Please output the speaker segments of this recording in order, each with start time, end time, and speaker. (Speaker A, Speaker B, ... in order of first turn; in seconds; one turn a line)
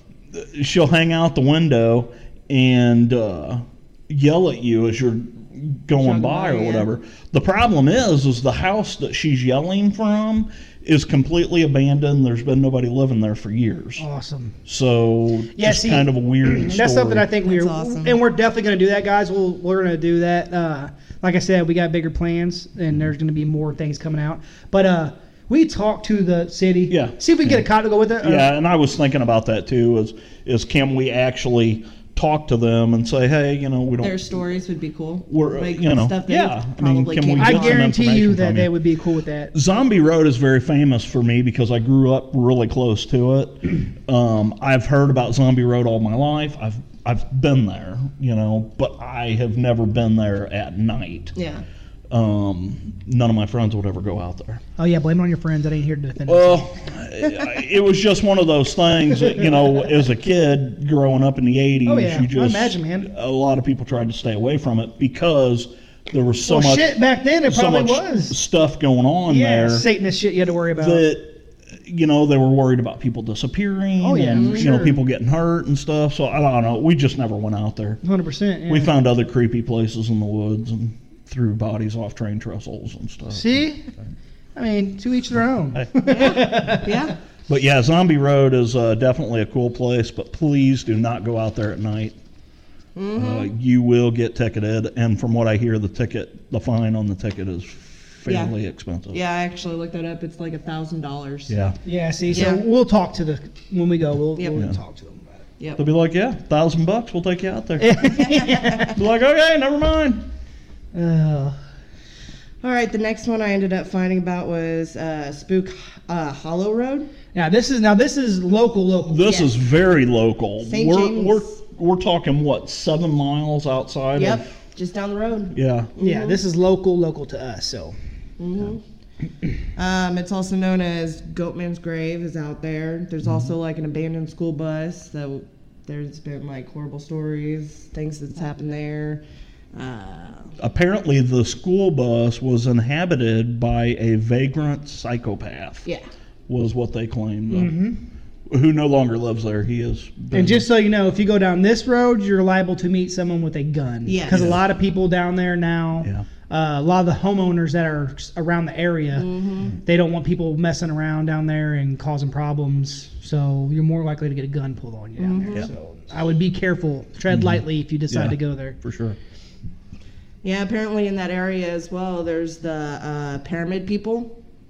Speaker A: 0.3-14.0
Speaker B: 6.0-6.7
Speaker C: 6.3-6.8
Speaker B: 14.0-14.6
Speaker A: 14.7-17.3
Speaker B: 15.5-28.5
Speaker C: 17.4-18.2
Speaker A: 26.9-27.6
Speaker A: 28.2-34.2
Speaker C: 34.0-37.9
Speaker A: 35.3-38.7
Speaker B: 37.4-39.5
Speaker A: 39.5-51.3
Speaker C: 51.4-51.6
Speaker A: 52.1-54.6
Speaker B: 54.8-56.6
Speaker A: 56.3-69.9
Speaker B: 61.8-63.1
Speaker B: 66.5-68.3
Speaker B: 69.3-71.0
Speaker A: 70.8-78.0
Speaker B: 74.0-75.0
Speaker C: 74.3-74.7
Speaker B: 78.0-78.9
Speaker A: 78.7-83.6
Speaker B: 83.3-83.9
Speaker B: 84.5-87.1
Speaker C: 86.1-87.2
Speaker A: 87.5-92.2
Speaker C: 93.0-93.5
Speaker A: 93.1-99.2
Speaker C: 98.2-98.5
Speaker C: 99.1-101.5
Speaker A: 101.5-101.8
Speaker B: 101.8-105.3
Speaker C: 102.3-102.6
Speaker A: 105.8-107.9
Speaker B: 107.8-108.9
Speaker C: 108.0-108.9
Speaker A: 108.9-110.2
Speaker B: 110.9-111.6
Speaker C: 112.6-117.1
Speaker B: 117.3-119.2
Speaker A: 119.1-124.5
Speaker C: 119.2-119.5
Speaker C: 120.6-121.6
Speaker C: 124.2-126.4
Speaker A: 125.5-125.9
Speaker B: 126.0-128.0
Speaker C: 128.4-128.8
Speaker C: 129.8-139.2
Speaker C: 139.7-140.5
Speaker A: 140.6-145.8
Speaker A: 146.5-147.7
Speaker B: 147.5-148.0
Speaker A: 148.5-150.7
Speaker B: 150.3-159.3
Speaker C: 154.1-154.4
Speaker A: 154.3-154.6
Speaker A: 156.0-156.3
Speaker C: 159.1-159.7
Speaker B: 159.8-168.8
Speaker C: 165.2-165.7
Speaker A: 167.3-169.2
Speaker C: 170.4-174.3